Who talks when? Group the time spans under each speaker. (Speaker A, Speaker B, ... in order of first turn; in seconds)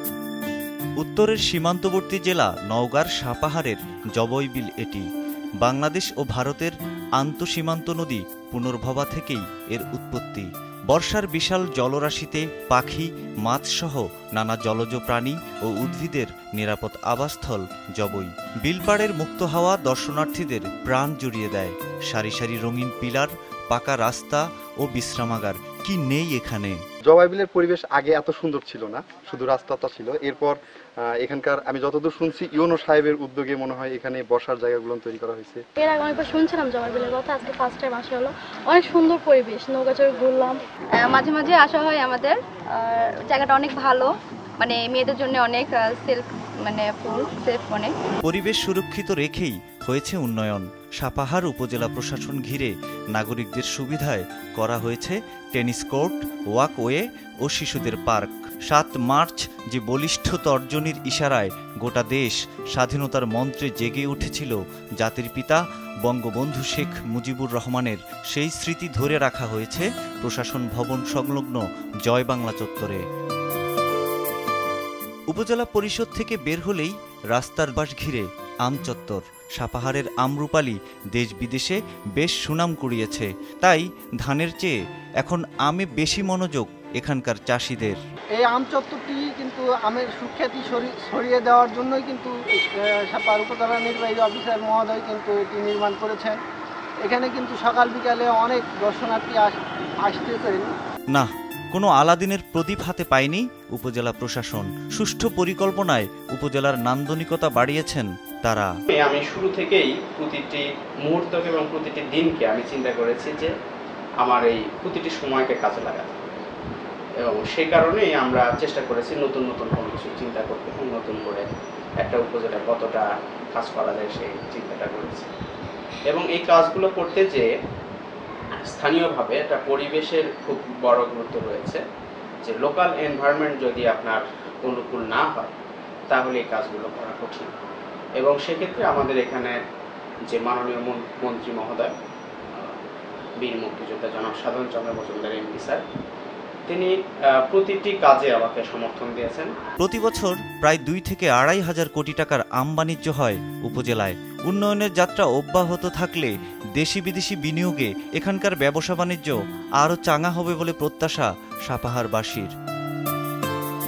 Speaker A: 1.0-5.0, 5.6-26.8, 48.2-73.0, 75.3-88.0, 101.1-108.7, 149.8-162.5
Speaker B: 27.0-35.6
Speaker C: 35.8-40.6
Speaker D: 41.0-47.9
Speaker E: 88.4-96.4, 97.0-100.7
Speaker F: 108.9-113.5, 114.2-116.3, 117.2-121.5, 122.0-125.3, 126.1-127.5, 128.6-131.8, 132.4-135.5, 136.1-137.5, 138.2-139.5, 140.3-141.9, 143.4-145.8, 146.7-146.9, 147.5-149.5